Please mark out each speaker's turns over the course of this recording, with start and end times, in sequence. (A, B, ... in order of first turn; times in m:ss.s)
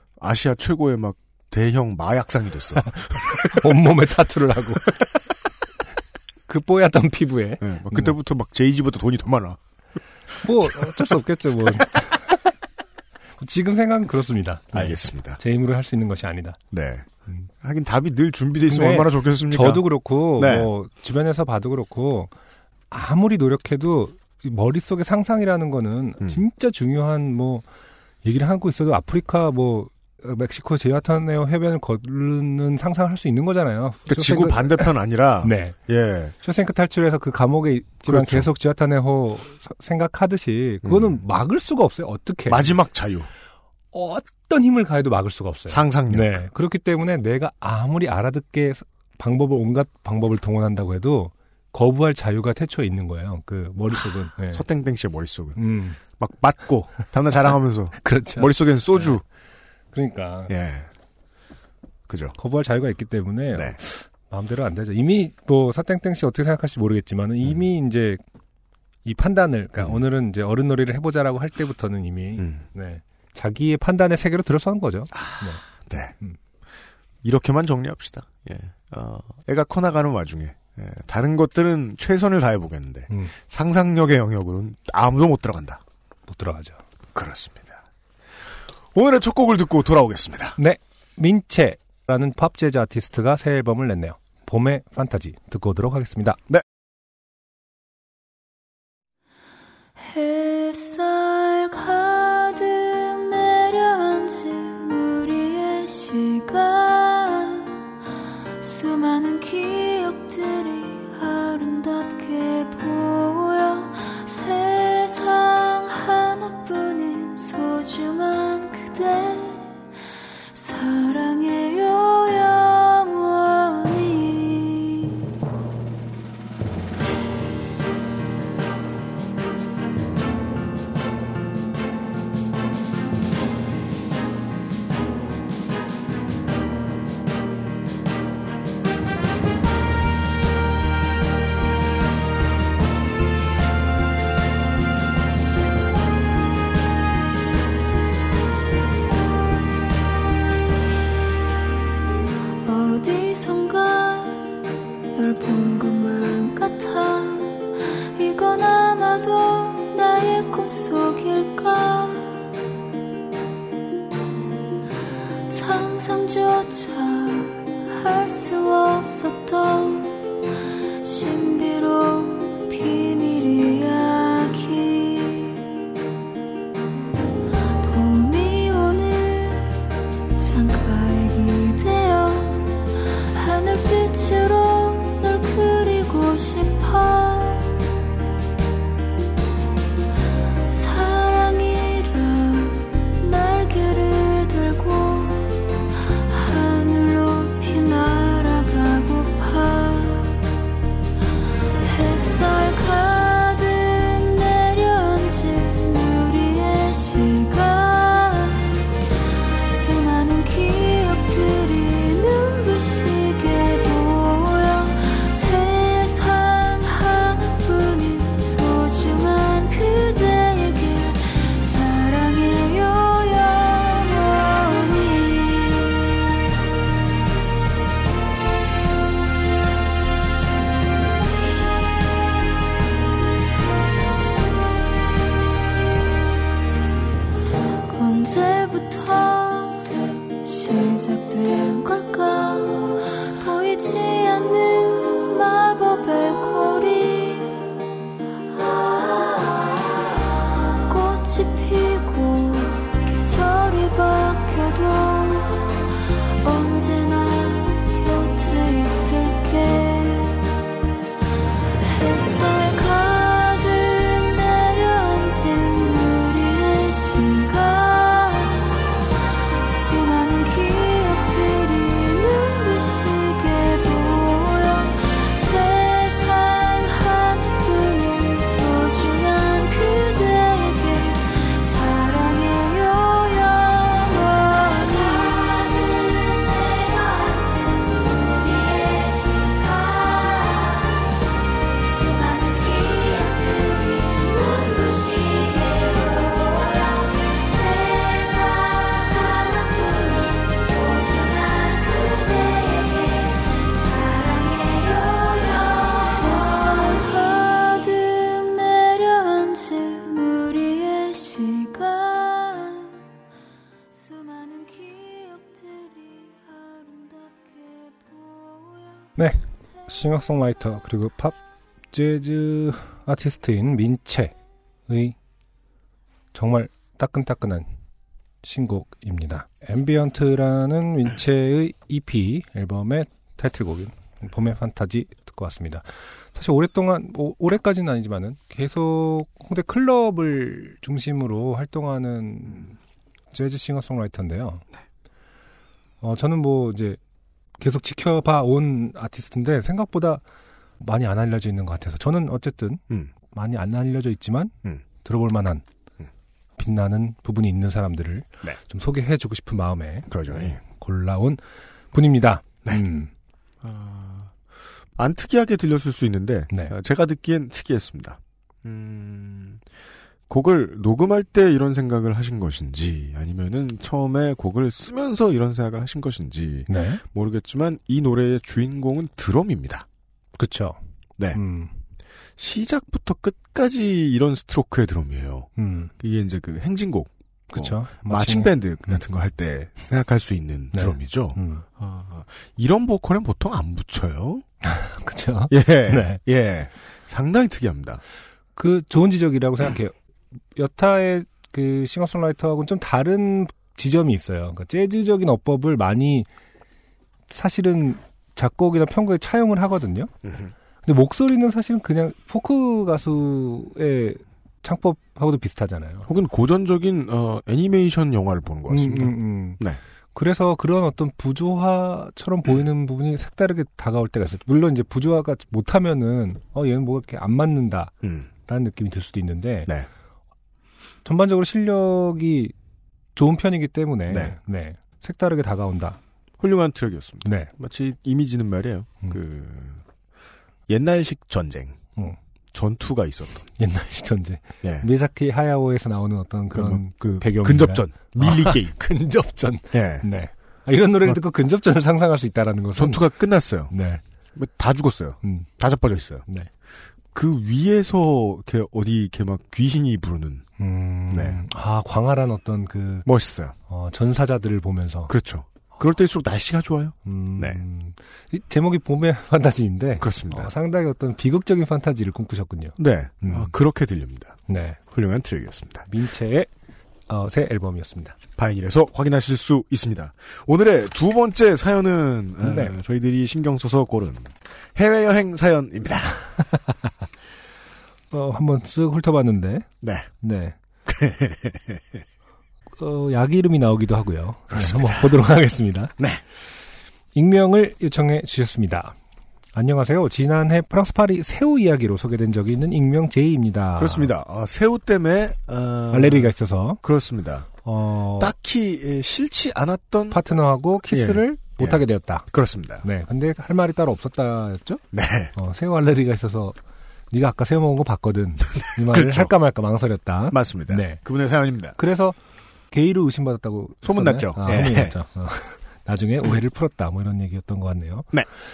0:00.2-0:03.7 A
0:02.8-0:04.9 B
0:06.5-0:08.2 B
0:07.6-0:09.6 A
0:10.4-0:12.4 B
0:10.6-0:11.0 A
0:13.4-0:16.6 B
0:14.7-0:15.4 A
0:16.7-0:17.1 A
0:17.6-0:19.9 A
0:18.7-0:22.3 B
0:20.4-0:20.7 A
0:22.9-0:27.6 B
0:28.2-0:34.9 B
0:34.1-0:36.4 A
0:35.4-0:35.8 B
0:36.4-0:42.8 B
0:38.1-0:38.5 A
0:40.8-0:41.2 A
0:42.5-0:43.3 A
0:43.9-0:54.6 B
0:45.7-0:46.4 A
0:54.5-0:59.2 A
0:55.6-0:56.0 B
0:58.0-0:59.1 B
0:59.9-1:00.5 B
1:00.5-1:00.9 A
1:02.1-1:02.4 A
1:02.4-1:08.2 B
1:09.0-1:15.6 B
1:12.4-1:12.6 A
1:15.1-1:16.1 A
1:17.2-1:25.8 A
1:26.3-1:26.8 B
1:27.1-1:27.8 A
1:28.9-1:30.6 A
1:30.6-1:36.4 B
1:40.0-1:47.8 C
1:48.6-1:59.8 C
2:00.5-2:05.3 C
2:32.6-2:34.6 C
2:35.2-2:42.5 C
2:45.5-2:50.2 C
2:51.0-2:55.8 C
2:57.8-2:59.7 C
3:00.4-3:07.8 C
3:10.7-3:15.6 C
3:16.3-3:20.4 C
3:21.8-3:28.8 C
3:29.7-3:46.1 C
3:57.8-4:07.8 C
4:08.5-4:09.8 C
4:10.9-4:15.7 C
4:16.4-4:20.5 C
4:21.8-4:28.9 C
4:29.6-4:50.8 C
4:51.8-5:13.0 C
5:13.9-5:19.1 C
5:19.2-5:21.4 B
5:21.9-5:24.3 B
5:24.9-5:25.2 B
5:26.3-5:27.7 B
5:28.4-5:42.8 B
5:43.3-5:44.6 B
5:46.0-5:47.0 B
5:47.6-5:50.2 B
5:50.8-5:55.6 B
5:56.6-6:01.4 B
6:00.1-6:00.6 A
6:01.9-6:03.1 B
6:03.6-6:04.3 A
6:05.0-6:09.6 A
6:10.3-6:19.9 A
6:16.7-6:17.0 B
6:20.4-6:20.8 B
6:21.3-6:21.7 B
6:22.4-6:34.4 A
6:25.6-6:25.9 B
6:27.5-6:29.0 B
6:30.7-6:31.6 B
6:34.6-6:36.2 B
6:35.5-6:38.0 A
6:38.6-6:39.9 B
6:40.6-6:46.3 B
6:47.3-6:50.1 B
6:50.2-6:50.5 A
6:50.8-6:56.1 B
6:56.1-6:59.8 A
6:58.7-6:59.6 B
7:00.2-7:07.9 B
7:08.0-7:08.3 A
7:08.5-7:09.7 B
7:11.0-7:12.5 B
7:13.2-7:16.0 B
7:14.1-7:14.4 A
7:16.4-7:19.8 A
7:17.2-7:17.5 B
7:20.7-7:21.8 A
7:22.5-7:23.5 A
7:23.6-7:33.0 B
7:26.5-7:28.8 A
7:29.7-7:30.1 A
7:32.8-7:33.7 A
7:33.7-7:34.0 B
7:34.4-7:36.2 A
7:37.1-7:40.4 A
7:40.6-7:43.1 B
7:41.1-7:41.4 A
7:43.1-7:43.5 A
7:43.7-7:45.1 B
7:45.1-7:47.6 A
7:47.0-7:53.5 B
7:50.0-7:50.5 A
7:52.8-7:55.9 A
7:54.5-7:54.8 B
7:55.9-7:56.5 B
7:57.1-7:58.2 B
7:58.4-8:06.2 A
8:02.4-8:02.8 B
8:08.1-8:09.7 B
8:09.8-8:10.1 A
8:10.2-8:10.6 B
8:10.9-8:12.0 A
8:12.8-8:15.9 B
8:14.5-8:15.1 A
8:17.2-8:19.0 B
8:19.5-8:24.1 B
8:23.8-8:27.5 A
8:25.9-8:26.8 B
8:27.6-8:28.3 B
8:28.2-8:30.2 A
8:30.1-8:32.3 B
8:30.9-8:32.8 A
8:32.8-8:34.8 B
8:34.9-8:35.3 A
8:35.4-8:36.6 B
8:37.1-8:41.0 B
8:38.8-8:39.3 A
8:40.3-8:41.8 A
8:41.8-8:42.2 B
8:42.7-8:48.1 B
8:43.8-8:45.0 A